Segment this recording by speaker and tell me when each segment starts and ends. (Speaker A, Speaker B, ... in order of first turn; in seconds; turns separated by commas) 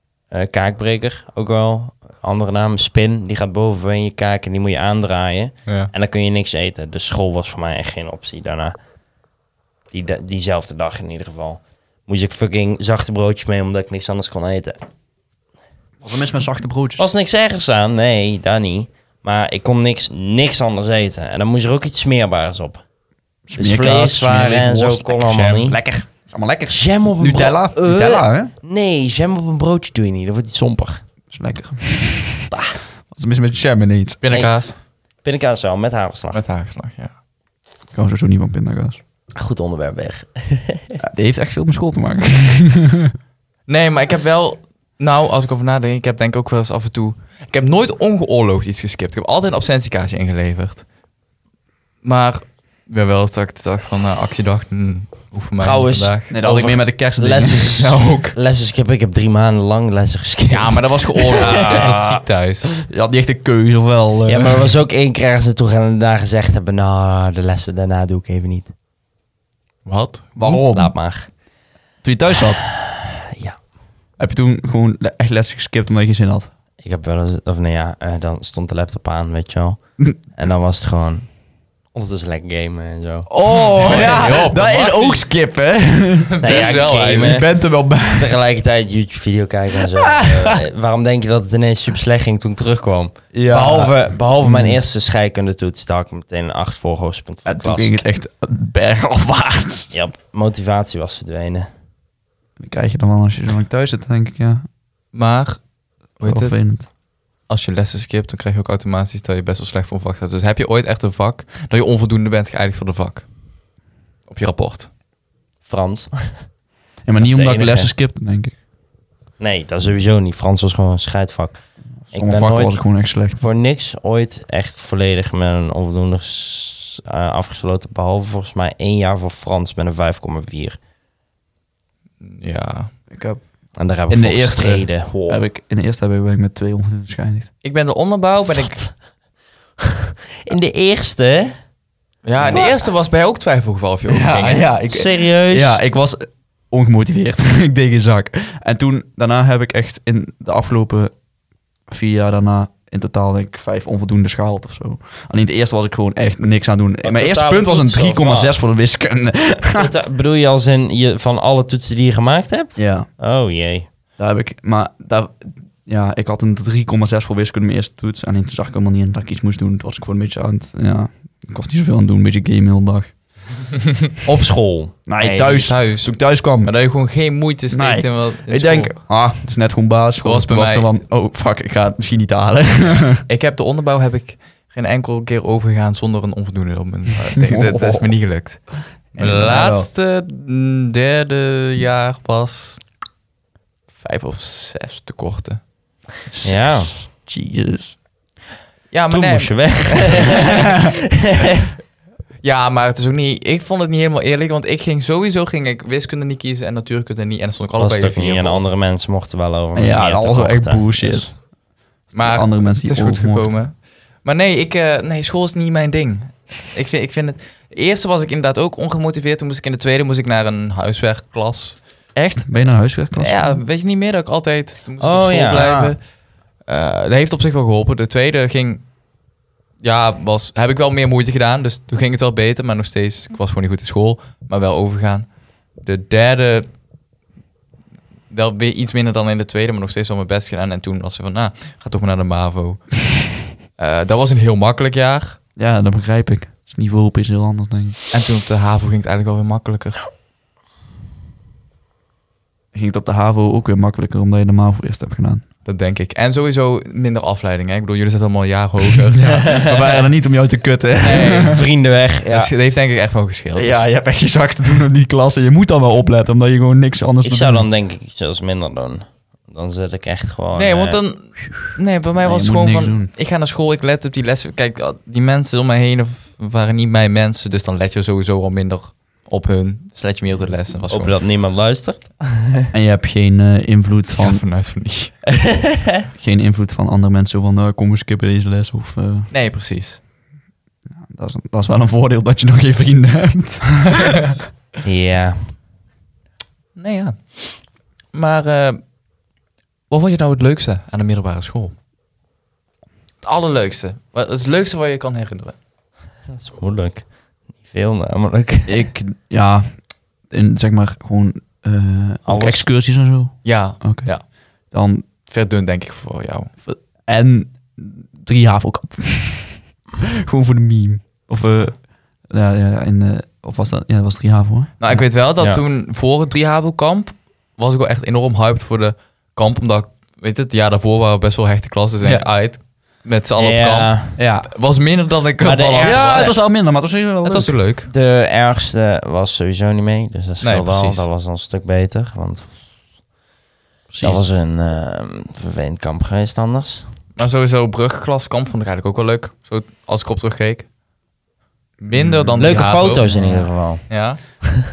Speaker A: 0.3-8.8, Speaker A: 9.9-14.8, Speaker B: 16.0-17.1, Speaker A: 17.0-22.8, Speaker B: 23.5-28.5, Speaker A: 23.6-25.8, Speaker A: 26.7-31.0, Speaker B: 31.3-34.2, Speaker C: 34.2-34.7, Speaker A: 35.2-36.4, Speaker C: 36.3-37.1, Speaker B: 37.9-39.0, Speaker A: 39.3-41.0, Speaker B: 41.0-43.1, Speaker C: 43.7-50.8, Speaker C: 52.0-56.7, Speaker A: 55.6-62.2, Speaker B: 56.3-58.2, Speaker C: 57.8-58.3, Speaker C: 60.5-62.7, Speaker B: 61.5-61.9, Speaker B: 62.8-64.7, Speaker A: 64.3-68.7, Speaker C: 69.8-70.6, Speaker B: 70.3-70.9, Speaker A: 70.4-71.3, Speaker B: 72.0-72.6, Speaker A: 72.4-73.6, Speaker B: 74.2-76.5, Speaker A: 76.8-79.8, Speaker A: 80.3-81.3, Speaker A: 81.9-83.3, Speaker B: 83.3-88.4, Speaker C: 83.5-85.2, Speaker C: 86.3-87.4, Speaker A: 86.4-87.5, Speaker A: 88.1-98.0, Speaker B: 89.8-90.6, Speaker B: 93.3-94.8, Speaker B: 97.5-99.9, Speaker A: 99.9-101.7, Speaker B: 102.6-104.6, Speaker C: 105.1-105.6, Speaker C: 106.2-106.6, Speaker B: 106.2-106.9, Speaker C: 107.5-113.3, Speaker C: 114.3-114.9, Speaker A: 115.6-116.4, Speaker B: 117.0-118.5, Speaker A: 117.2-117.9, Speaker A: 119.4-121.6, Speaker B: 122.1-123.4, Speaker A: 122.1-122.8, Speaker A: 123.4-130.8, Speaker C: 132.2-132.9, Speaker B: 133.1-133.4, Speaker A: 133.8-135.4, Speaker B: 134.1-137.5, Speaker C: 137.6-138.8, Speaker A: 139.9-141.5, Speaker C: 142.2-144.7, Speaker A: 142.4-142.7, Speaker B: 144.1-151.1, Speaker A: 144.9-145.8, Speaker B: 151.9-159.9, Speaker A: 157.0-158.6, Speaker A: 159.7-163.9, Speaker B: 162.8-163.1, Speaker B: 164.2-173.1, Speaker A: 174.2-174.9, Speaker B: 175.1-176.7, Speaker C: 175.2-178.9, Speaker B: 177.7-183.2, Speaker C: 180.2-180.9, Speaker C: 183.2-192.8, Speaker B: 187.4-188.1, Speaker B: 189.2-189.9, Speaker C: 193.9-195.6, Speaker B: 196.3-198.0, Speaker A: 196.4-196.9, Speaker C: 198.9-200.5, Speaker A: 199.1-201.7, Speaker B: 200.1-200.9, Speaker C: 202.4-208.7, Speaker A: 207.8-211.3, Speaker B: 209.7-211.3, Speaker C: 212.1-221.8, Speaker B: 212.2-213.5, Speaker B: 222.1-223.6, Speaker C: 223.2-226.0, Speaker A: 225.0-225.8, Speaker B: 225.5-225.9, Speaker C: 226.6-228.8, Speaker C: 229.8-236.7, Speaker C: 238.3-243.0, Speaker C: 243.8-245.4, Speaker B: 245.6-248.0, Speaker C: 248.1-250.0, Speaker B: 252.7-255.4, Speaker C: 255.6-259.6, Speaker B: 259.1-261.6, Speaker A: 259.5-259.8, Speaker C: 261.0-261.6, Speaker A: 261.4-262.5, Speaker C: 262.3-263.8, Speaker B: 263.6-267.7, Speaker A: 267.2-271.0, Speaker C: 270.5-281.2, Speaker B: 272.2-273.1, Speaker A: 280.9-282.7, Speaker B: 282.7-284.4, Speaker C: 284.1-285.2, Speaker B: 286.1-289.3, Speaker C: 289.3-290.0, Speaker B: 291.0-294.4, Speaker C: 294.0-294.3, Speaker A: 294.8-295.4, Speaker C: 296.8-297.6, Speaker C: 298.1-298.8, Speaker C: 299.9-301.7, Speaker C: 303.2-305.6, Speaker A: 306.3-307.1, Speaker A: 307.6-308.8, Speaker B: 308.7-309.7, Speaker B: 310.3-314.1, Speaker A: 312.2-312.6, Speaker C: 313.4-314.2, Speaker B: 314.7-315.1, Speaker C: 315.2-316.5, Speaker B: 316.6-325.1, Speaker C: 324.8-336.4, Speaker A: 333.4-334.2, Speaker B: 334.2-334.5, Speaker A: 335.4-336.3, Speaker B: 335.8-337.5, Speaker C: 337.2-337.9, Speaker A: 337.9-342.5, Speaker C: 340.4-341.0, Speaker B: 343.9-344.2, Speaker A: 344.0-346.9, Speaker C: 347.2-350.7, Speaker B: 351.8-352.7, Speaker C: 351.9-354.4, Speaker A: 352.4-353.9